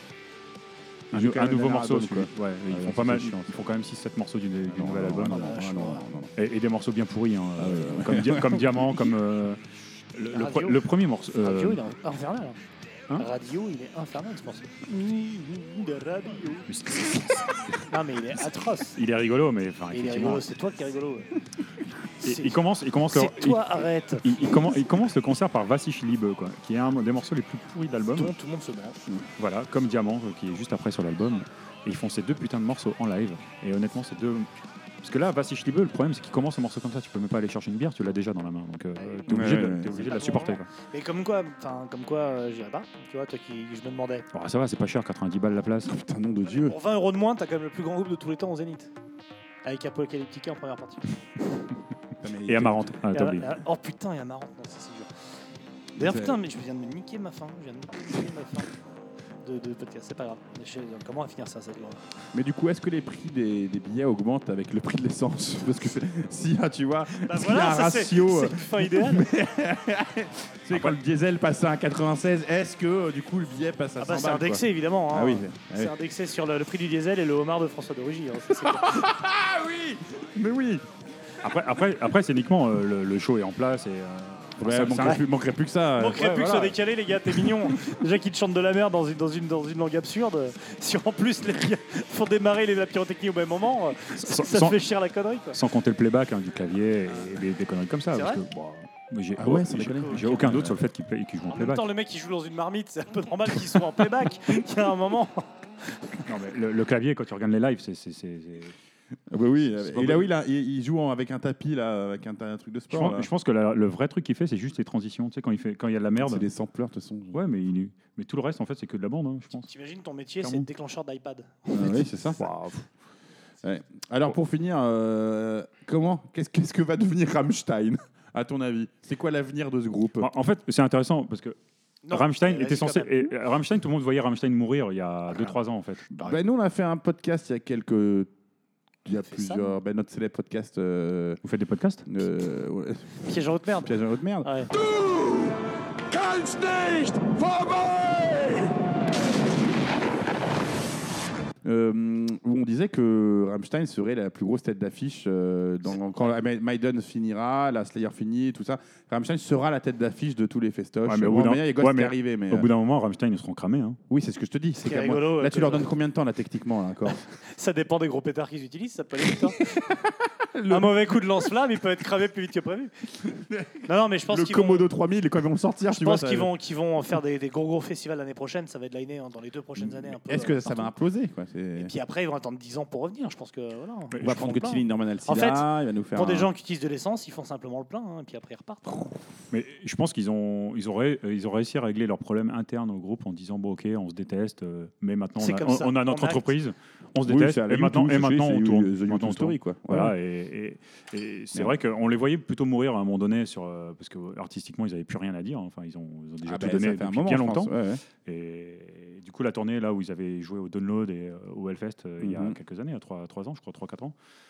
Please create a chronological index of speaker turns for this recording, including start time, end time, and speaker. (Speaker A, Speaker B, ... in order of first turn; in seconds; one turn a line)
Speaker A: 1.1-3.4
Speaker B: 1.1-5.5
Speaker A: 4.7-6.3
Speaker C: 5.3-6.1
Speaker B: 6.3-9.6
Speaker A: 7.6-9.1
Speaker B: 10.1-11.8
Speaker C: 10.3-10.8
Speaker C: 11.4-12.6
Speaker C: 13.2-16.7
Speaker B: 16.7-17.4
Speaker C: 17.9-19.0
Speaker B: 18.9-20.4
Speaker C: 19.9-21.3
Speaker C: 22.2-22.6
Speaker B: 22.2-28.3
Speaker C: 23.1-24.6
Speaker C: 28.1-29.0
Speaker B: 29.4-34.5
Speaker B: 35.0-40.7
Speaker C: 39.0-44.2
Speaker A: 39.3-40.0
Speaker B: 44.3-45.9
Speaker A: 45.8-46.8
Speaker C: 46.5-48.9
Speaker C: 49.6-51.2
Speaker A: 52.2-53.0
Speaker B: 52.5-53.5
Speaker C: 53.1-55.1
Speaker A: 56.0-56.4
Speaker C: 56.0-58.7
Speaker C: 59.4-62.0
Speaker A: 62.3-75.9
Speaker C: 67.2-69.2
Speaker C: 74.0-79.1
Speaker A: 78.6-80.8
Speaker B: 81.4-85.2
Speaker A: 84.6-86.8
Speaker C: 86.0-95.5
Speaker B: 94.2-94.8
Speaker B: 95.5-101.9
Speaker C: 98.1-98.4
Speaker A: 99.4-100.8
Speaker C: 100.0-100.4
Speaker C: 101.5-105.5
Speaker B: 106.2-108.7
Speaker A: 109.3-113.3
Speaker B: 109.6-110.3
Speaker B: 112.9-116.4
Speaker A: 116.2-117.4
Speaker B: 117.3-119.7
Speaker C: 119.6-122.0
Speaker B: 120.4-120.7
Speaker A: 121.7-122.5
Speaker B: 122.4-122.9
Speaker A: 123.6-130.3
Speaker B: 130.2-131.6
Speaker C: 132.0-133.3
Speaker B: 132.1-136.1
Speaker A: 136.2-138.3
Speaker A: 139.0-141.4
Speaker C: 139.3-139.7
Speaker B: 141.4-142.1
Speaker A: 142.1-143.1
Speaker C: 143.2-144.7
Speaker A: 143.8-145.3
Speaker A: 146.1-148.3
Speaker A: 151.6-162.7
Speaker B: 161.1-164.0
Speaker A: 164.1-167.2
Speaker C: 164.8-165.9
Speaker C: 167.5-169.7
Speaker A: 170.5-171.2
Speaker C: 170.7-172.9
Speaker A: 173.5-176.5
Speaker C: 173.8-174.9
Speaker C: 175.9-180.9
Speaker A: 179.8-181.9
Speaker C: 181.8-189.0
Speaker A: 184.2-186.5
Speaker B: 189.5-207.7
Speaker C: 195.4-196.5
Speaker A: 197.2-200.2
Speaker A: 206.4-208.0
Speaker B: 208.2-214.1
Speaker A: 212.2-212.6